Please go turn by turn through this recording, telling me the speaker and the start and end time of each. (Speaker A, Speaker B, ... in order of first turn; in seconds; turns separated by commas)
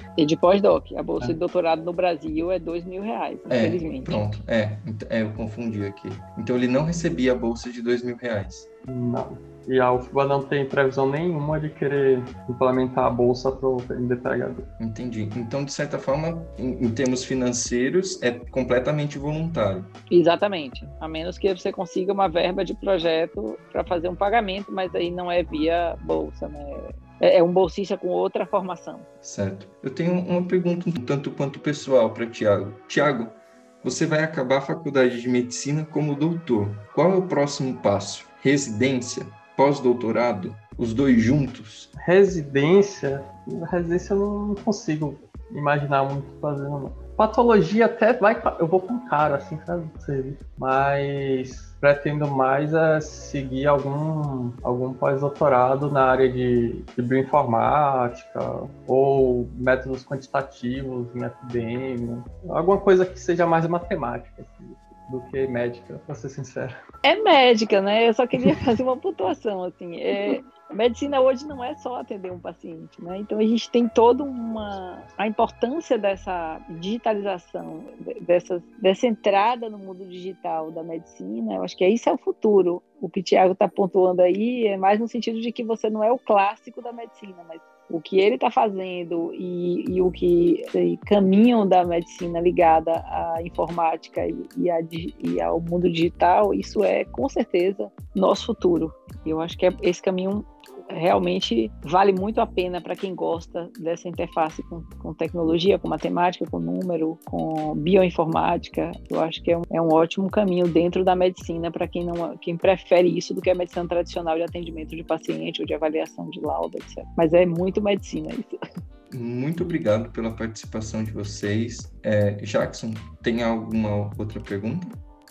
Speaker A: 0.2-4.3, Speaker B: 3.5-8.7, Speaker C: 8.9-14.7, Speaker B: 14.8-19.9, Speaker A: 20.1-29.1, Speaker B: 29.2-41.9, Speaker C: 42.0-66.8, Speaker A: 67.0-118.5, Speaker B: 119.1-125.0